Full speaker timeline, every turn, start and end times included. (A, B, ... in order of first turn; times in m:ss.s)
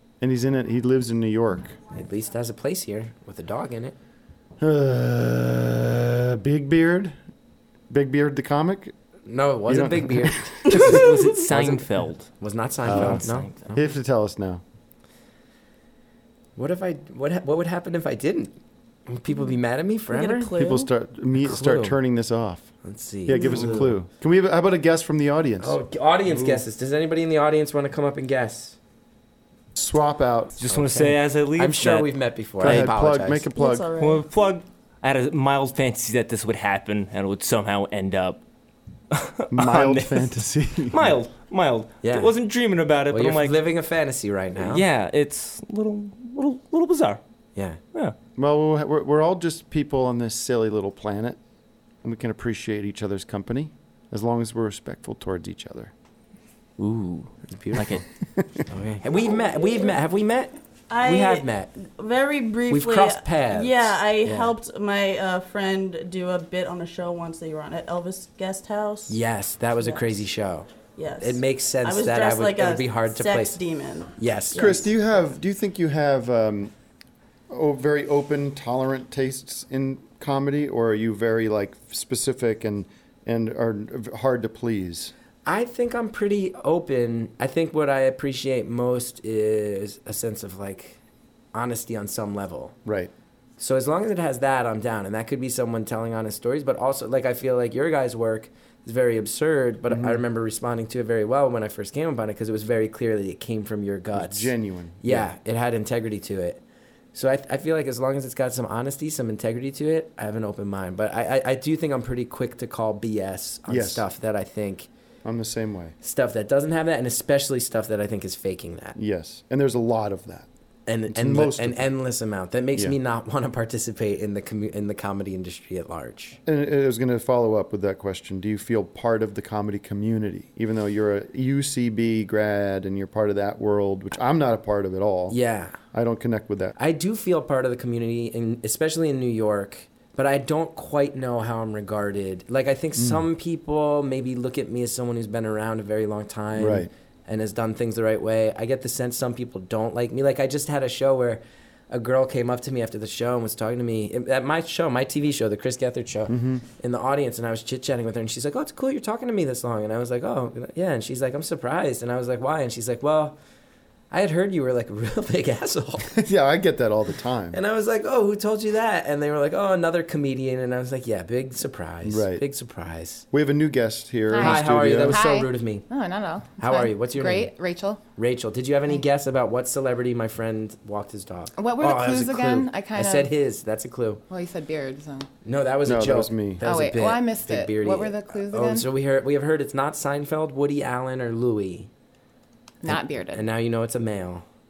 0:00.2-0:01.8 A
0:01.9-0:04.0 B
0:04.6-0:07.2 A
0:07.9-0:08.9 A
0:09.3-0:13.8 B
0:09.7-0:10.7 A
0:10.7-0:12.3 C
0:12.8-0:13.5 C
0:12.8-0:14.6 A
0:16.6-0:18.6 B
0:19.1-0:20.5 B
0:20.1-0:20.9 D
0:20.6-0:22.7 A
0:21.4-0:22.0 B
0:22.8-0:23.9 B
0:23.3-0:26.6 A
0:23.3-0:23.8 D
0:25.6-0:28.8 B
0:29.8-0:30.6 A
0:30.6-0:32.1 C
0:30.7-0:33.5 B
0:32.6-0:33.9 A
0:33.6-0:34.3 D
0:34.0-0:38.4 C
0:39.1-0:40.3 C
0:39.5-0:41.1 A
0:40.9-0:43.6 C
0:42.0-0:42.3 B
0:43.1-0:44.8 B
0:44.6-0:47.2 C
0:48.4-0:51.4 A
0:52.0-0:55.9 A
0:56.8-0:58.0 C
0:57.4-0:58.0 B
0:58.7-1:01.7 B
1:00.9-1:09.2 D
1:02.7-1:04.5 B
1:09.1-1:10.7 B
1:11.0-1:14.1 D
1:11.2-1:13.6 B
1:14.2-1:14.8 B
1:14.5-1:16.7 A
1:17.5-1:25.1 A
1:25.5-1:31.0 B
1:31.5-1:32.8 B
1:32.8-1:33.1 A
1:33.6-1:46.6 B
1:39.9-1:40.2 A
1:44.1-1:45.3 A
1:47.1-1:54.9 B
1:53.7-1:54.0 A
1:55.2-1:56.0 A
1:56.0-1:59.0 B
1:59.0-2:00.5 A
2:00.9-2:06.4 B
2:01.1-2:01.9 A
2:06.5-2:15.4 A
2:15.3-2:15.8 B
2:15.9-2:16.8 A
2:16.8-2:43.4 B
2:23.0-2:23.2 A
2:26.6-2:26.9 A
2:36.3-2:36.6 A
2:44.1-2:46.1 B
2:46.1-2:47.6 A
2:47.5-2:53.2 B
2:52.0-2:52.4 A
2:53.3-2:55.2 A
2:54.3-2:58.0 E
2:54.4-2:55.9 B
2:56.6-2:57.5 B
2:58.2-3:04.2 B
3:01.6-3:03.3 E
3:04.3-3:05.3 E
3:05.4-3:11.9 B
3:05.8-3:06.6 A
3:06.6-3:08.9 E
3:12.8-3:13.4 E
3:12.9-3:14.4 B